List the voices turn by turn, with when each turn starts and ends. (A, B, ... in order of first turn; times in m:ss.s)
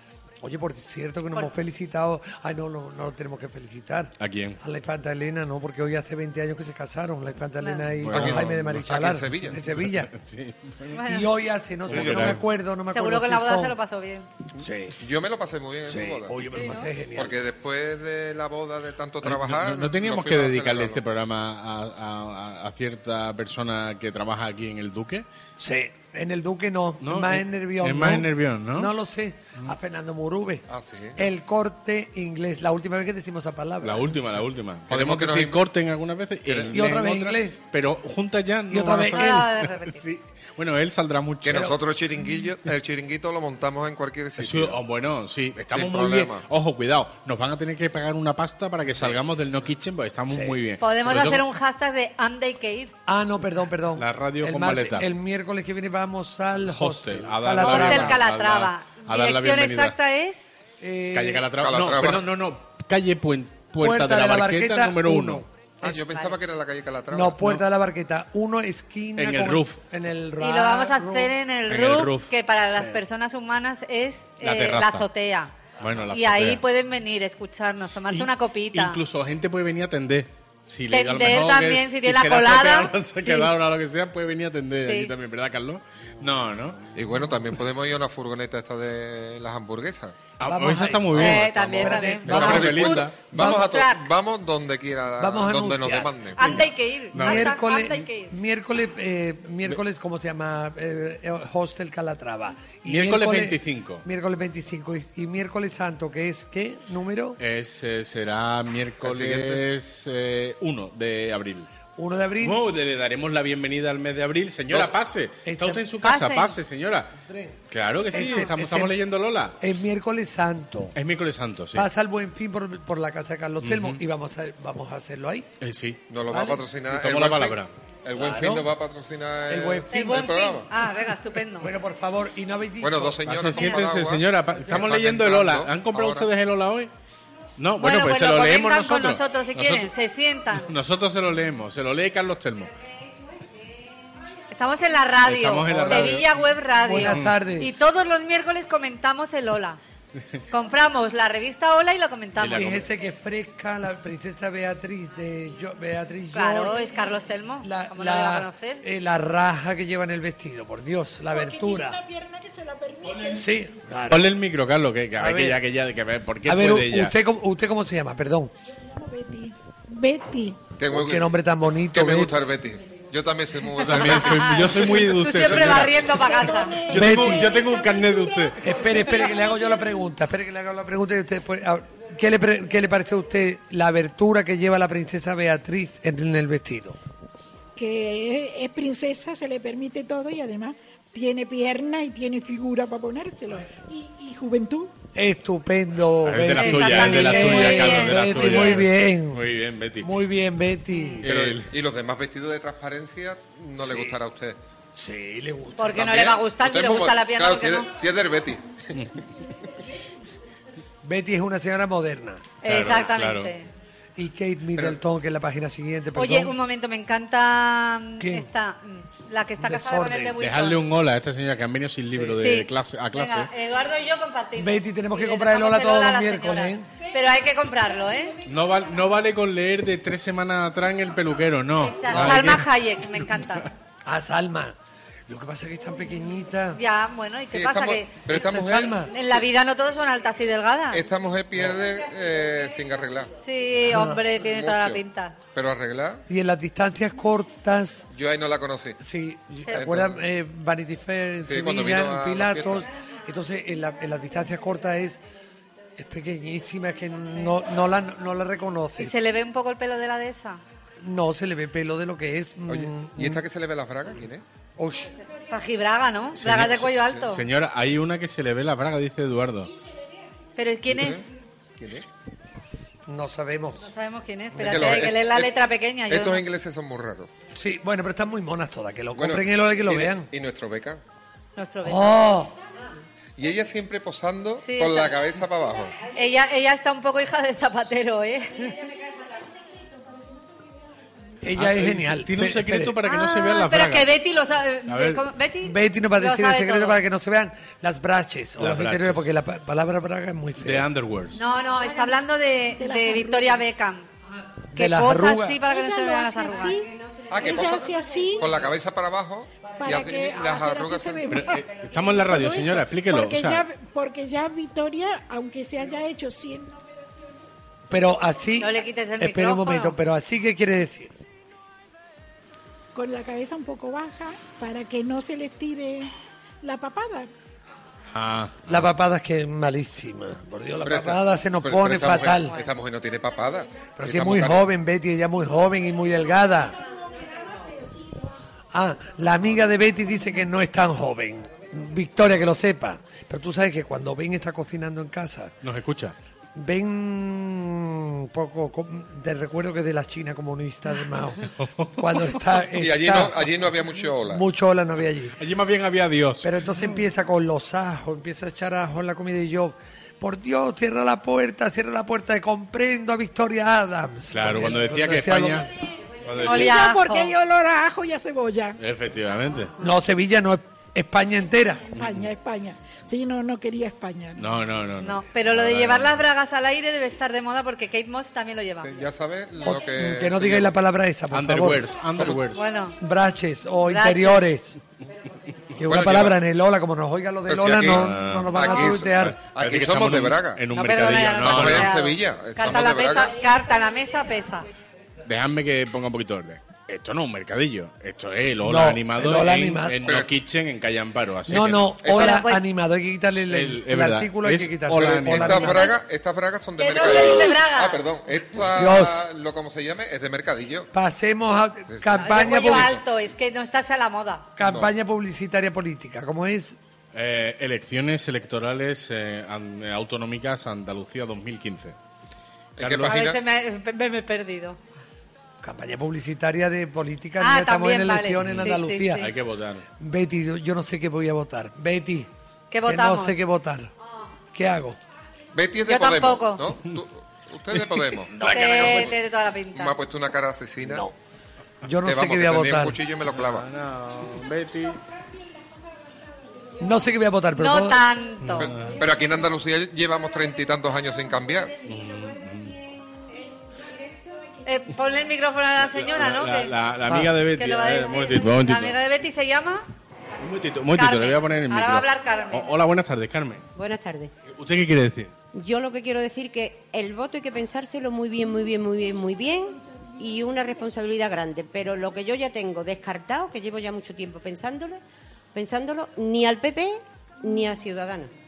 0:00.4-0:10.1 A
0:04.2-0:04.6 B
0:07.6-0:07.9 C
0:08.0-0:11.0 B
0:08.1-0:09.6 D
0:10.9-0:11.3 C
0:11.0-0:13.8 A
0:11.9-0:12.4 B
0:11.9-0:12.4 D
0:12.9-0:14.2 C
0:14.6-0:16.4 D
0:14.6-0:15.0 A
0:15.8-0:17.4 A
0:16.5-0:16.9 C
0:17.1-0:21.0 D
0:19.2-0:25.2 B
0:25.6-0:30.6 A
0:27.0-0:28.9 B
0:30.7-0:31.2 D
0:31.2-0:34.2 A
0:33.8-0:41.8 B
0:34.9-0:35.6 D
0:36.5-0:36.8 D
0:36.7-0:37.6 A
0:38.7-0:39.5 A
0:39.1-0:40.0 C
0:41.4-0:44.8 D
0:44.4-0:51.4 B
0:45.7-0:46.4 D
0:50.3-0:50.6 A
0:50.8-0:52.9 C
0:53.1-0:58.2 A
0:54.0-0:55.0 B
0:56.6-0:59.9 B
0:57.6-1:00.4 C
1:00.8-1:01.5 A
1:01.1-1:05.4 B
1:01.6-1:02.2 D
1:03.8-1:06.0 A
1:05.8-1:07.4 D
1:06.1-1:06.4 C
1:07.1-1:11.3 A
1:09.2-1:09.8 B
1:10.4-1:15.5 C
1:11.7-1:12.3 B
1:12.7-1:13.0 A
1:14.4-1:15.0 B
1:15.8-1:16.6 B
1:16.1-1:19.0 C
1:18.1-1:26.8 B
1:20.9-1:23.5 C
1:24.8-1:25.1 C
1:26.9-1:30.2 D
1:30.4-1:33.2 B
1:30.4-1:33.9 A
1:31.2-1:34.0 C
1:31.5-1:36.6 D
1:35.2-1:47.4 A
1:36.4-1:38.3 C
1:37.1-1:37.5 B
1:42.8-1:44.0 B
1:47.4-1:51.7 B
1:49.0-1:49.6 D
1:52.0-1:52.6 A
1:52.4-1:57.1 B
1:55.4-1:55.8 A
1:56.0-1:56.5 C
1:57.2-1:59.0 A
1:57.7-1:59.6 B
1:59.6-2:01.0 A
2:00.9-2:01.9 B
2:01.7-2:05.5 A
2:03.6-2:04.0 B
2:05.6-2:06.0 B
2:06.1-2:10.7 D
2:06.3-2:06.6 A
2:06.9-2:07.7 B
2:08.2-2:08.7 A
2:09.5-2:10.3 A
2:09.9-2:11.7 C
2:11.6-2:13.5 A
2:12.8-2:16.3 D
2:13.2-2:16.9 B
2:17.6-2:19.9 B
2:17.8-2:20.7 C
2:20.5-2:22.7 B
2:24.5-2:29.8 C
2:25.2-2:26.3 B
2:25.6-2:27.7 A
2:26.9-2:27.3 B
2:30.5-2:32.8 C
2:32.4-2:32.9 B
2:32.5-2:36.9 A
2:36.3-2:38.8 C
2:37.6-2:42.0 A
2:41.3-2:43.5 E
2:43.3-2:44.3 A
2:44.1-2:47.1 B
2:45.2-2:45.6 A
2:46.4-2:48.5 A
2:48.7-2:50.6 E
2:50.8-2:51.3 D
2:50.9-2:52.4 A
2:51.9-2:55.0 D
2:53.8-2:56.2 B
2:54.0-2:56.8 C
2:56.1-3:00.0 E
2:56.8-2:58.6 B
2:56.9-2:57.6 A
2:58.6-3:07.0 A
3:07.8-3:14.9 E
3:15.1-3:19.4 A
3:16.2-3:20.2 B
3:16.6-3:18.8 C
3:20.0-3:21.3 A
3:21.2-3:21.7 B
3:21.2-3:24.6 D
3:23.8-3:24.2 A
3:24.9-3:26.3 A
3:25.8-3:27.9 C
3:25.9-3:29.0 D
3:31.0-3:32.6 A
3:32.6-3:33.7 C
3:32.6-3:33.5 B
3:34.2-3:36.6 A
3:36.1-3:40.8 C
3:38.2-3:38.5 A
3:39.6-3:40.4 A
3:40.4-3:43.5 B
3:42.4-3:48.4 C
3:44.6-3:46.9 A
3:48.4-3:52.7 B
3:51.8-3:53.7 C
3:52.1-3:52.6 A
3:53.2-3:53.6 B
3:54.0-3:54.8 A
3:55.3-3:56.8 A
3:56.7-3:58.3 C
3:57.5-3:59.1 D
3:58.3-3:59.1 A
3:59.0-4:01.0 C
4:00.9-4:03.3 D
4:03.4-4:05.4 C
4:03.8-4:04.2 A
4:04.4-4:05.0 D
4:05.5-4:06.2 D
4:06.3-4:08.1 A
4:08.1-4:09.0 D
4:09.0-4:15.2 A
4:09.7-4:10.2 D
4:11.4-4:12.9 D
4:16.0-4:19.2 A
4:19.0-4:20.6 C
4:21.0-4:23.4 A
4:22.7-4:24.4 D
4:24.8-4:25.1 A
4:25.5-4:27.4 C
4:26.4-4:29.7 B
4:26.8-4:27.2 D
4:30.6-4:31.2 C
4:30.9-4:31.2 D
4:31.8-4:32.0 D
4:33.1-4:33.9 A
4:33.8-4:36.4 C
4:34.5-4:35.1 A
4:34.6-4:37.3 D
4:37.5-4:40.3 A
4:39.1-4:41.0 D
4:41.6-4:42.2 C
4:41.8-4:42.6 A
4:43.4-4:46.0 D
4:44.6-4:45.2 C
4:46.1-4:48.8 C
4:49.0-4:51.3 E
4:51.4-4:53.0 A
4:51.5-4:54.1 B
4:53.0-4:57.0 C
4:54.9-4:55.2 B
4:55.6-5:00.9 A
4:58.6-4:59.3 B
5:00.6-5:01.4 B
5:01.3-5:04.0 C
5:02.8-5:03.8 E
5:04.6-5:05.6 A
5:04.7-5:06.8 C
5:05.7-5:08.7 F
5:06.1-5:06.8 E
5:07.3-5:11.4 D
5:07.3-5:08.5 E
5:09.8-5:11.6 E
5:11.3-5:13.6 B
5:12.2-5:17.4 E
5:17.9-5:21.1 A
5:18.6-5:20.0 C
5:22.9-5:27.3 E
5:28.1-5:28.8 B
5:28.7-5:32.6 A
5:30.8-5:34.7 D
5:34.0-5:36.8 A
5:36.7-5:38.4 E
5:38.7-5:45.6 A
5:45.6-5:46.1 B
5:46.5-5:53.5 A
5:51.4-5:52.2 B
5:52.8-5:54.4 D
5:54.3-5:55.4 A
5:55.4-5:56.8 B
5:56.4-6:05.7 A
6:04.3-6:05.7 B
6:06.2-6:06.8 B
6:06.4-6:08.8 E
6:06.4-6:07.3 C
6:08.8-6:09.7 B
6:09.8-6:11.9 A
6:11.9-6:12.3 B
6:11.9-6:14.5 E
6:14.4-6:16.2 B
6:15.0-6:18.9 C
6:18.8-6:20.8 D
6:19.6-6:21.9 A
6:21.3-6:22.6 B
6:22.5-6:23.0 C
6:23.0-6:24.8 A
6:23.9-6:24.4 C
6:25.8-6:29.4 A
6:25.8-6:26.4 D
6:27.5-6:30.6 D
6:27.8-6:32.0 B
6:30.7-6:34.7 C
6:31.4-6:33.4 D
6:35.2-6:41.9 B
6:38.6-6:40.0 A
6:40.0-6:40.3 D
6:41.5-6:45.9 A
6:42.0-6:42.4 D
6:42.1-6:42.6 C
6:43.5-6:45.8 B
6:45.2-6:50.9 D
6:46.8-6:48.0 C
6:48.7-6:49.3 A
6:50.9-6:53.0 A
6:51.9-6:53.0 D
6:52.1-6:54.4 C
6:54.6-6:56.8 A
6:54.6-6:54.9 D
6:57.1-7:02.0 B
7:02.8-7:03.4 D
7:02.8-7:03.2 B
7:03.0-7:04.8 C
7:05.6-7:09.3 A
7:07.4-7:09.3 C
7:08.4-7:09.8 B
7:10.0-7:12.3 A
7:12.7-7:13.4 C
7:12.8-7:13.9 A
7:14.5-7:15.0 A
7:15.5-7:19.2 D
7:15.8-7:16.6 C
7:18.3-7:19.1 A
7:18.4-7:19.9 C
7:19.7-7:21.0 D
7:20.8-7:21.1 A
7:21.8-7:23.0 A
7:22.0-7:23.6 D
7:23.3-7:25.0 B
7:25.2-7:26.7 E
7:26.8-7:28.1 A
7:27.6-7:28.7 C
7:28.4-7:29.0 B
7:28.6-7:31.7 D
7:31.8-7:32.7 B
7:32.0-7:34.4 F
7:34.6-7:36.7 C
7:35.8-7:39.0 B
7:37.0-7:37.3 A
7:37.6-7:39.8 C
7:40.4-7:43.6 B
7:40.9-7:42.7 C
7:43.8-7:44.3 F
7:44.5-7:45.3 B
7:45.5-7:55.0 F
7:55.5-7:58.3 F